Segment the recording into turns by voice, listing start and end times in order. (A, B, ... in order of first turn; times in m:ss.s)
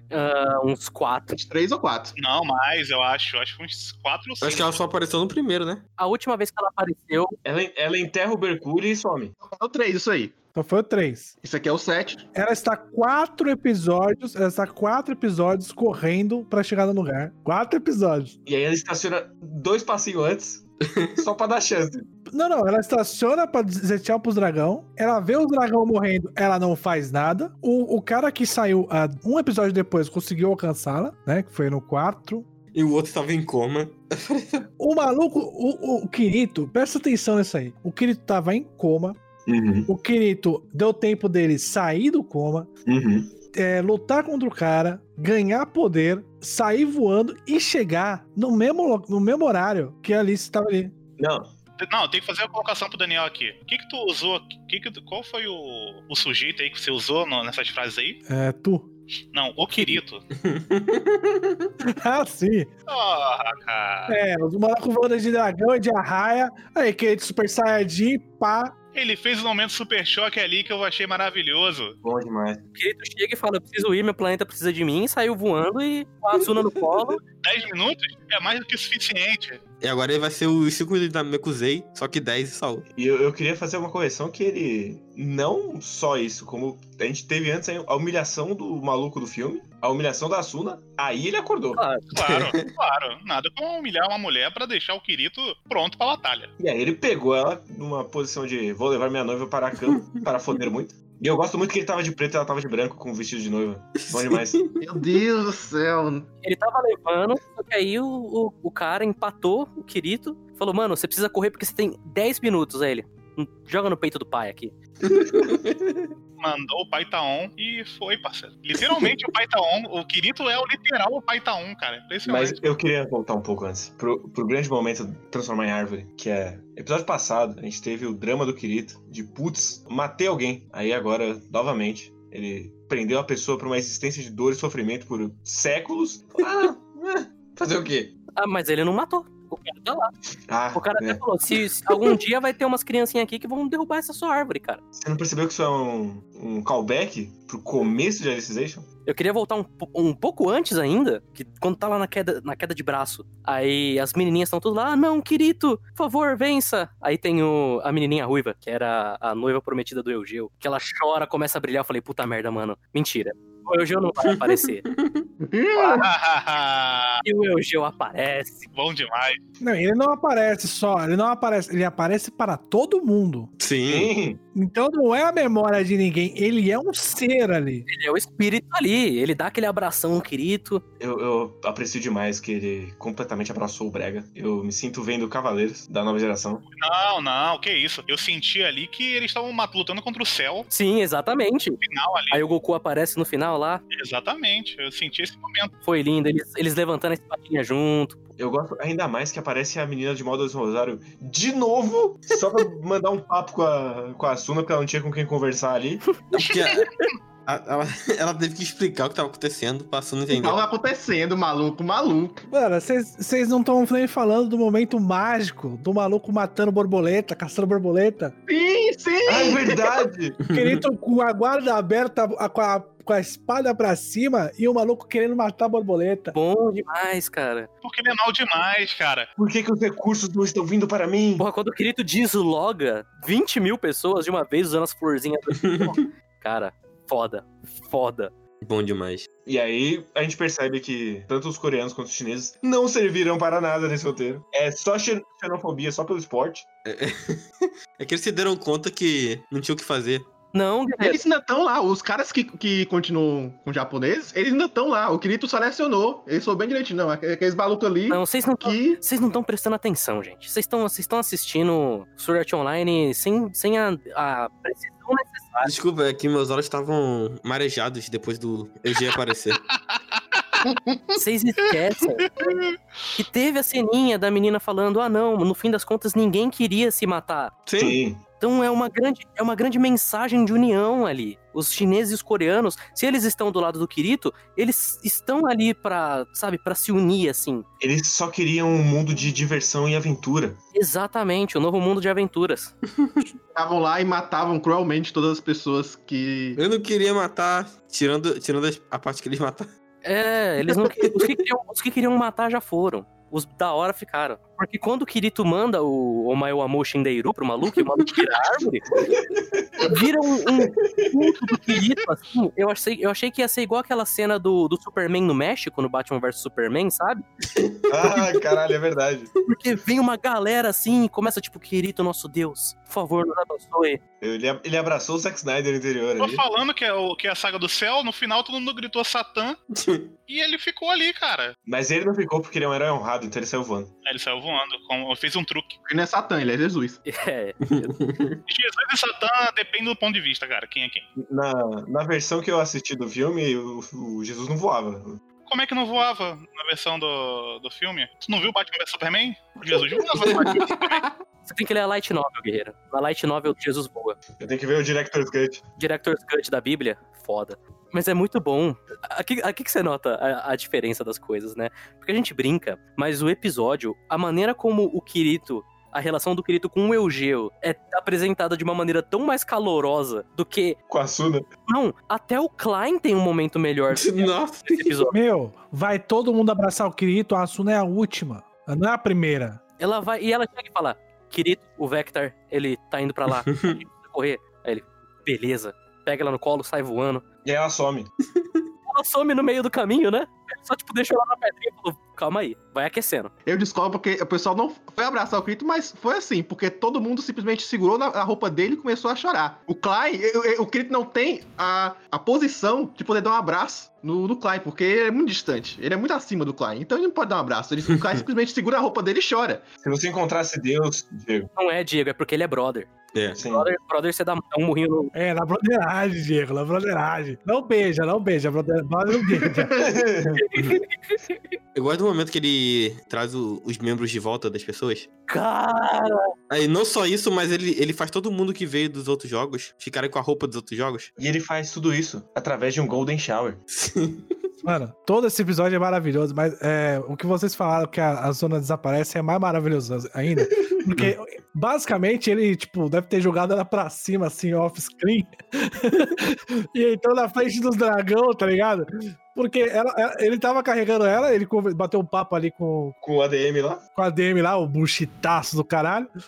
0:00.1-0:01.4 A
0:01.3-0:02.2 B
0:02.2-0:04.7 C
0:04.4-0:05.8 D
0:06.0-0:07.4 A
0:07.4-0:09.4 E
0:09.4-0:10.4 B
0:10.6-0:11.4 F
0:11.4-0:12.3 B
0:12.3-0:18.4 F
0:18.5-0:22.1 E
0:22.3-0:32.5 F
0:32.7-0:34.6 D
0:34.8-0:39.2 F
0:39.5-0:39.9 E
0:39.9-0:42.7 F
0:42.9-0:43.3 E
0:43.5-0:51.0 F
0:51.2-0:51.5 E
0:51.8-0:58.2 C
0:58.3-0:58.9 F
0:59.3-1:00.2 C
1:00.4-1:01.7 D
1:01.8-1:02.7 F
1:02.9-1:04.2 C
1:04.1-1:08.8 F
1:08.9-1:12.0 C
1:12.0-1:12.6 E
1:12.8-1:17.2 A
1:17.4-1:19.6 C
1:19.8-1:22.8 D
1:23.0-1:31.8 E
1:31.8-1:32.1 A
1:32.1-1:36.5 C
1:32.2-1:32.6 D
1:36.6-1:44.6 E
1:44.0-1:44.8 D
1:44.8-1:46.3 B
1:46.4-1:54.7 A
1:55.0-1:56.1 D
1:56.4-2:02.6 C
1:58.8-1:59.1 D
2:02.3-2:18.1 E
2:18.4-2:20.1 A
2:20.5-2:21.2 E
2:20.7-2:24.8 A
2:24.9-2:28.9 E
2:29.1-2:44.8 A
2:44.2-2:45.3 D
2:45.4-2:46.1 B
2:45.8-2:47.2 C
2:47.2-2:48.7 A
2:48.7-2:49.4 C
2:49.6-2:53.5 F
2:53.6-2:54.1 D
2:53.9-2:54.4 E
2:54.6-2:57.9 F
2:57.9-3:00.8 A
3:01.0-3:06.6 E
3:06.8-3:10.7 C
3:10.7-3:11.8 A
3:11.8-3:12.4 C
3:12.3-3:13.8 A
3:13.9-3:15.7 C
3:15.8-3:18.2 A
3:18.4-3:26.0 E
3:26.3-3:26.9 D
3:27.4-3:30.6 D
3:30.3-3:32.4 B
3:32.5-3:38.4 F
3:38.5-3:40.1 B
3:39.3-3:40.4 E
3:40.4-3:40.8 D
3:40.5-3:46.4 F
3:46.3-3:47.7 A
3:47.8-3:49.3 C
3:49.4-3:51.4 E
3:51.4-3:58.3 A
3:55.6-3:55.9 D
3:58.6-3:59.3 D
3:59.5-4:06.7 E
4:06.8-4:10.3 D
4:10.5-4:11.2 A
4:11.0-4:19.0 B
4:18.1-4:25.7 A
4:25.6-4:29.6 D
4:31.2-4:32.3 A
4:33.2-4:37.7 A
4:37.7-4:38.0 D
4:37.7-4:38.2 E
4:38.4-4:47.7 A
4:47.8-4:50.6 E
4:50.7-4:52.7 A
4:53.5-4:56.6 B
4:56.6-4:59.7 D
5:00.0-5:08.9 A
5:00.7-5:01.4 D
5:09.5-5:10.0 E
5:09.8-5:17.2 A
5:10.8-5:11.1 E
5:17.5-5:18.4 D
5:17.9-5:19.3 E
5:19.5-5:24.0 A
5:24.2-5:26.4 E
5:26.2-5:29.6 C
5:29.7-5:30.1 D
5:30.3-5:31.5 C
5:31.7-5:33.9 E
5:34.0-5:35.8 C
5:35.9-5:37.0 B
5:37.0-5:38.0 A
5:37.7-5:38.4 D
5:38.5-5:41.1 C
5:41.2-5:45.2 E
5:45.5-5:51.0 C
5:50.0-5:51.1 D
5:51.5-5:54.2 A
5:54.4-5:55.6 E
5:55.8-6:10.8 A
6:10.9-6:11.5 E
6:11.7-6:15.2 A
6:13.9-6:15.0 D
6:15.1-6:19.6 F
6:19.8-6:27.2 A
6:23.5-6:23.8 D
6:27.4-6:28.1 E
6:28.9-6:33.3 A
6:33.5-6:49.6 B
6:49.8-6:51.5 E
6:51.6-6:55.1 A
6:53.1-6:53.4 D
6:53.4-6:53.7 E
6:55.1-6:59.7 F
6:59.4-6:59.8 B
6:59.8-7:00.5 E
7:00.4-7:01.4 A
7:01.7-7:05.1 D
7:05.3-7:06.2 A
7:06.5-7:11.1 D
7:11.2-7:13.6 E
7:13.7-7:14.4 D
7:14.6-7:33.0 F
7:33.0-7:33.8 E
7:34.0-7:36.1 F